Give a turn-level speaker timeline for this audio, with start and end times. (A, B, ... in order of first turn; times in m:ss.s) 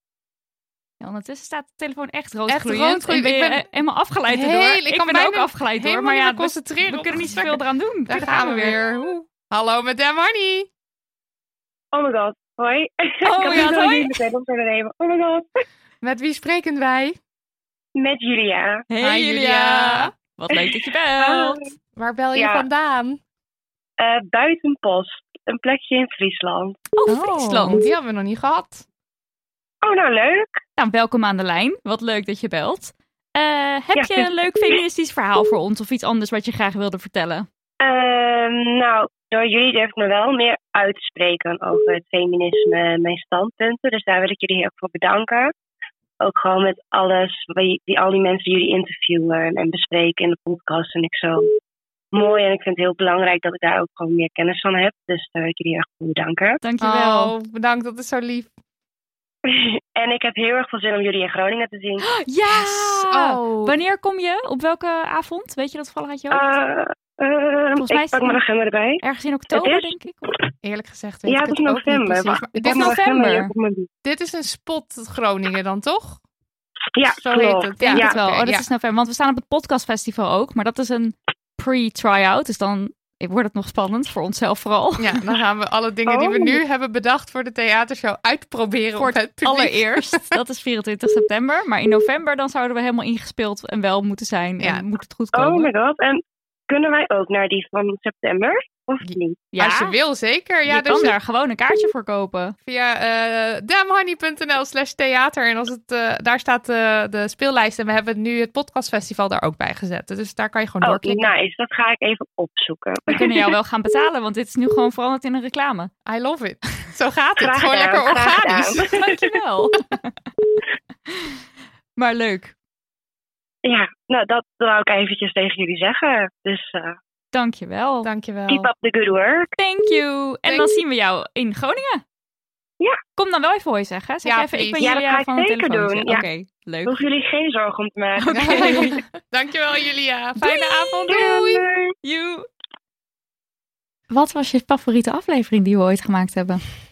0:01.0-0:08.8 A
0:02.5-0:03.6 B
0:04.3-0:10.7 B
0:11.9-0:15.4 C
0:13.2-0:14.1 A
0:16.0-0:17.2 B
0:18.0-0:18.8 C
0:18.9-0:21.6 A
0:19.0-0:20.1 B
0:21.2-0:21.5 C
0:22.0-0:23.2 B
0:22.4-0:22.6 C
0:24.0-0:26.8 C
0:27.0-0:27.8 A
0:27.1-0:28.8 B
0:29.8-0:30.5 C
0:30.8-0:37.5 A
0:37.8-0:45.5 C
0:46.2-0:51.5 C
0:52.2-0:56.6 C
0:56.6-0:57.3 A
0:56.8-0:58.5 B
1:00.0-1:02.0 C
1:02.0-1:06.5 A
1:02.5-1:03.7 B
1:06.3-1:09.0 C
1:07.8-1:08.4 A
1:09.0-1:10.3 A
1:09.5-1:09.9 C
1:10.6-1:13.0 B
1:11.3-1:13.9 C
1:12.6-1:13.5 A
1:14.0-1:16.2 B
1:17.0-1:18.1 C
1:17.2-1:18.7 B
1:17.8-1:25.2 A
1:25.0-1:30.3 B
1:29.0-1:35.7 A
1:35.3-1:36.2 C
1:36.7-1:39.3 C
1:39.0-1:41.1 B
1:39.5-1:40.0 A
1:40.7-1:42.6 A
1:42.7-1:51.3 B
1:51.1-1:53.1 C
1:53.1-1:55.9 A
1:56.1-1:58.9 B
1:57.4-1:58.8 C
1:58.9-2:00.1 A
2:02.0-2:02.5 A
2:03.6-2:07.0 C
2:07.3-2:08.1 A
2:08.0-2:08.7 B
2:08.5-2:09.5 C
2:09.6-2:12.0 A
2:10.5-2:10.7 B
2:13.2-2:17.0 A
2:14.2-2:14.9 B
2:14.8-2:16.2 C
2:16.9-2:18.2 C
2:18.2-2:19.0 A
2:18.4-2:21.6 B
2:20.4-2:21.3 A
2:22.0-2:22.5 A
2:24.1-2:26.6 A